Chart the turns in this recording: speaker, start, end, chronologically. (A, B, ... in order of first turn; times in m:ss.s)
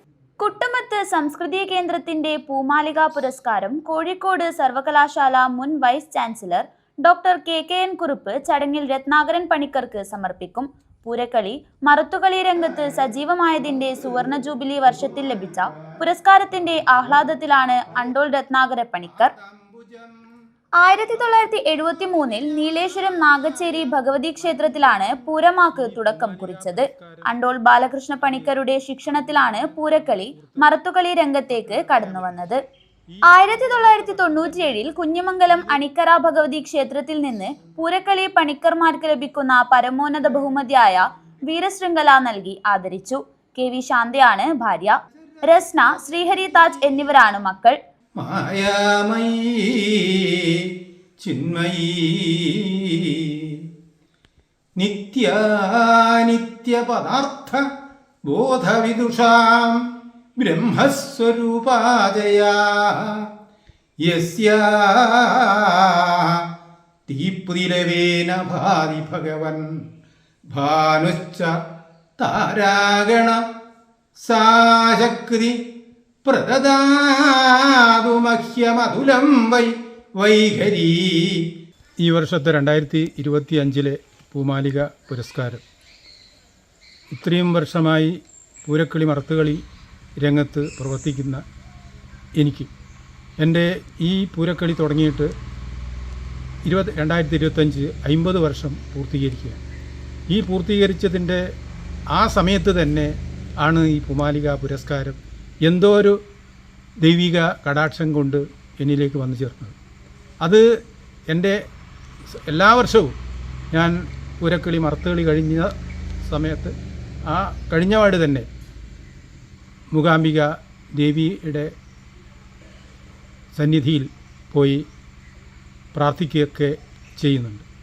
0:00.4-0:19.3 A
0:19.0-0:20.2 B
0:20.8-0:32.6 A
0:21.6-0:27.4 B
0:28.2-0:30.8 B
0:31.5-0:32.4 B
0:33.1-0:35.8 B
0:33.2-0:47.8 A
0:48.2-0:53.7 B
0:54.8-0:57.6 B
0:58.3-0:59.8 B
1:00.4-1:03.3 B
1:04.0-1:06.5 B
1:07.1-1:09.7 B
1:10.5-1:11.6 B
1:12.2-1:13.4 B
1:14.2-1:15.6 B
1:16.2-1:21.5 B
1:22.0-1:25.6 B
1:27.1-1:29.6 B
1:30.2-1:31.4 B
1:32.4-1:32.7 B
1:33.4-1:35.3 B
1:36.6-1:39.6 B
1:40.3-1:41.4 B
1:42.1-1:46.2 B
1:47.0-1:49.8 B
1:51.3-1:51.6 B
1:52.3-1:53.1 B
1:53.7-1:55.7 B
1:56.2-1:56.8 B
1:57.3-1:58.5 B
1:59.9-2:01.7 B
2:03.6-2:04.8 B
2:05.9-2:07.6 B